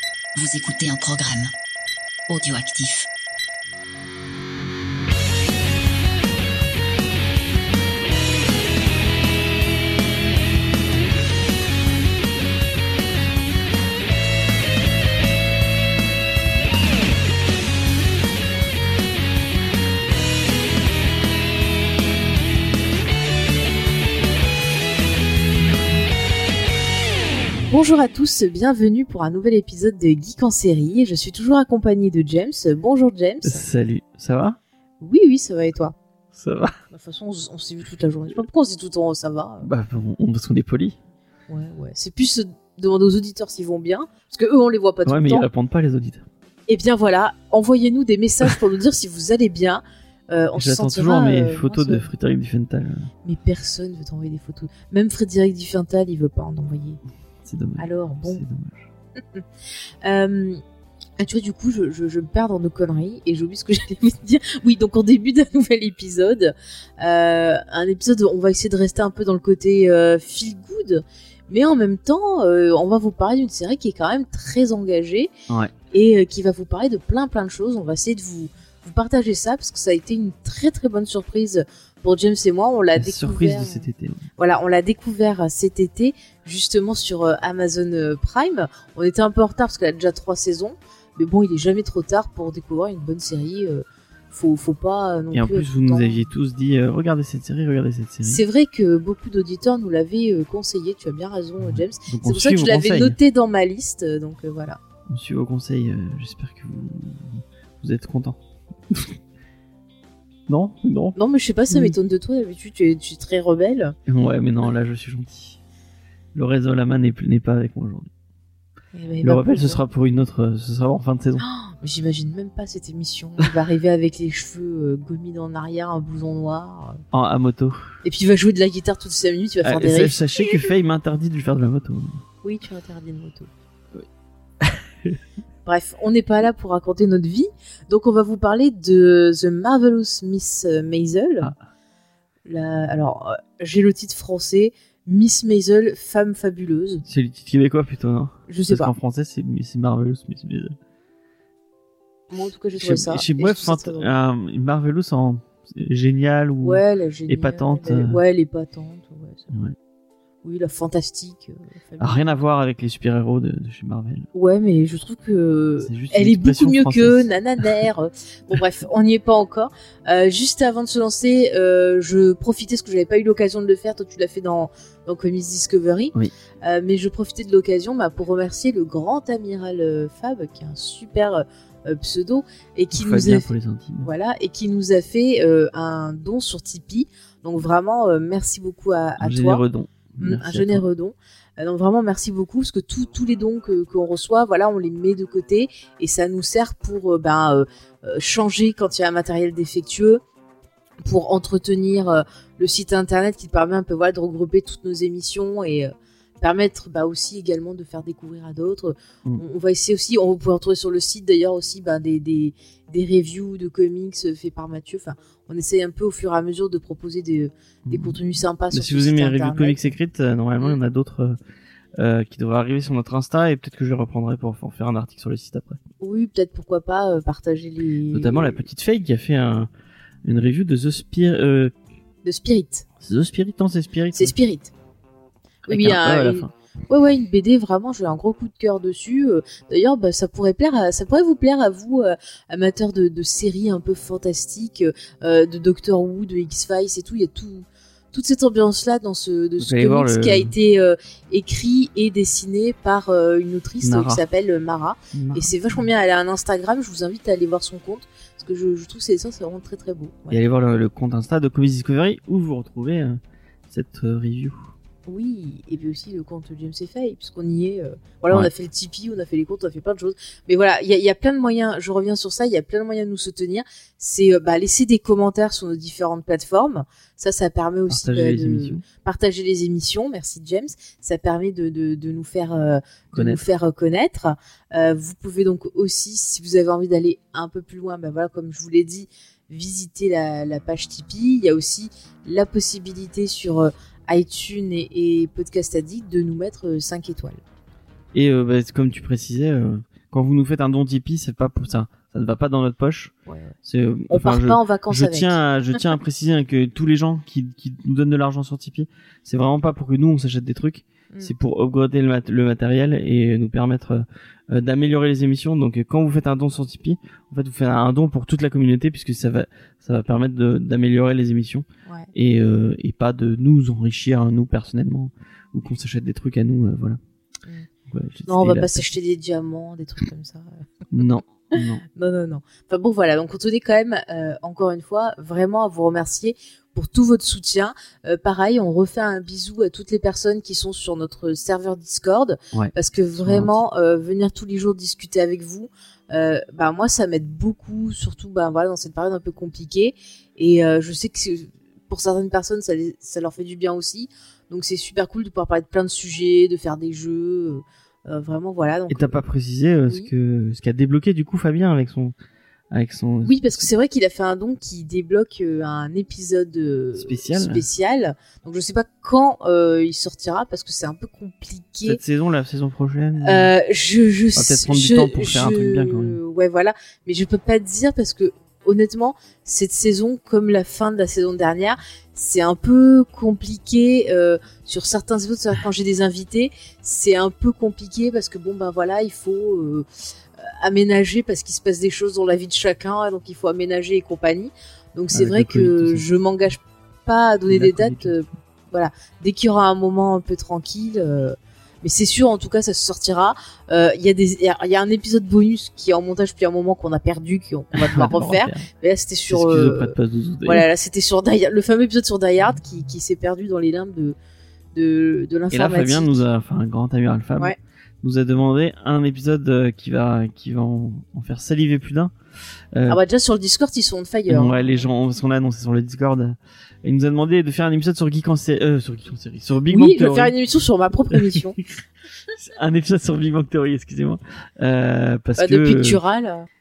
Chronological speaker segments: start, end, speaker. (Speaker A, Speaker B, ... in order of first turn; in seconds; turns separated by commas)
Speaker A: 0.3-1.5, Speaker A: 2.3-3.1, Speaker B: 27.7-33.6, Speaker C: 33.4-34.6, Speaker B: 35.0-35.9, Speaker C: 36.3-36.7, Speaker B: 36.9-39.7, Speaker C: 39.6-41.0, Speaker B: 41.5-45.5, Speaker C: 45.0-46.2, Speaker B: 46.7-52.1, Speaker C: 50.5-53.1, Speaker B: 53.2-57.0, Speaker C: 57.4-58.9, Speaker B: 57.8-58.4, Speaker B: 60.0-60.6, Speaker B: 61.2-75.3, Speaker B: 75.9-96.2, Speaker C: 83.0-84.3, Speaker C: 95.3-98.4, Speaker B: 98.2-104.8, Speaker C: 101.6-103.2, Speaker C: 105.1-109.2, Speaker C: 110.5-111.2, Speaker B: 111.2-113.9, Speaker C: 111.7-112.0, Speaker C: 114.1-115.6, Speaker C: 116.3-118.1, Speaker B: 118.9-119.8, Speaker C: 119.2-121.4, Speaker B: 121.4-127.0, Speaker C: 127.1-127.9, Speaker B: 128.0-130.6, Speaker C: 129.6-132.2, Speaker B: 132.4-133.5, Speaker C: 134.6-135.2, Speaker B: 135.6-141.5, Speaker B: 142.4-147.0, Speaker C: 147.0-150.8, Speaker B: 148.5-148.9, Speaker B: 152.3-154.1, Speaker C: 152.8-158.2, Speaker B: 156.6-159.5, Speaker B: 160.4-162.3, Speaker C: 162.0-164.3, Speaker B: 164.3-183.5, Speaker C: 165.8-167.7, Speaker C: 182.9-184.1, Speaker B: 184.0-189.6, Speaker C: 189.2-190.8, Speaker B: 190.2-200.2, Speaker B: 201.0-219.9, Speaker C: 217.9-218.2, Speaker C: 218.7-221.4, Speaker C: 222.0-225.8, Speaker B: 226.0-228.6, Speaker C: 228.1-229.7, Speaker C: 230.2-231.7, Speaker B: 232.2-232.8, Speaker C: 233.0-234.3, Speaker B: 234.1-234.7, Speaker C: 235.7-236.5, Speaker B: 235.7-260.4, Speaker C: 249.6-250.5, Speaker C: 253.8-254.2, Speaker C: 255.1-255.5, Speaker C: 260.3-264.7, Speaker B: 265.1-297.4, Speaker C: 277.9-278.8, Speaker C: 283.1-283.4, Speaker C: 298.1-303.1, Speaker B: 303.3-303.5, Speaker C: 303.6-327.0, Speaker B: 304.1-305.4, Speaker C: 327.9-328.9, Speaker B: 328.3-330.6, Speaker C: 330.9-331.8, Speaker B: 331.5-359.2, Speaker C: 342.5-343.5, Speaker C: 358.9-362.1, Speaker C: 362.7-363.7, Speaker B: 363.2-372.0, Speaker C: 367.0-367.6, Speaker C: 371.8-373.5, Speaker B: 373.2-389.9, Speaker C: 374.4-376.2, Speaker B: 390.4-409.9, Speaker C: 395.1-396.0, Speaker C: 397.5-398.1, Speaker C: 407.8-408.7, Speaker C: 409.3-410.7, Speaker B: 410.4-414.1, Speaker B: 414.7-416.2, Speaker C: 415.5-422.1, Speaker C: 422.7-423.0, Speaker B: 422.9-424.9, Speaker C: 424.3-430.3, Speaker B: 429.7-431.6, Speaker C: 432.4-436.0, Speaker B: 435.4-436.5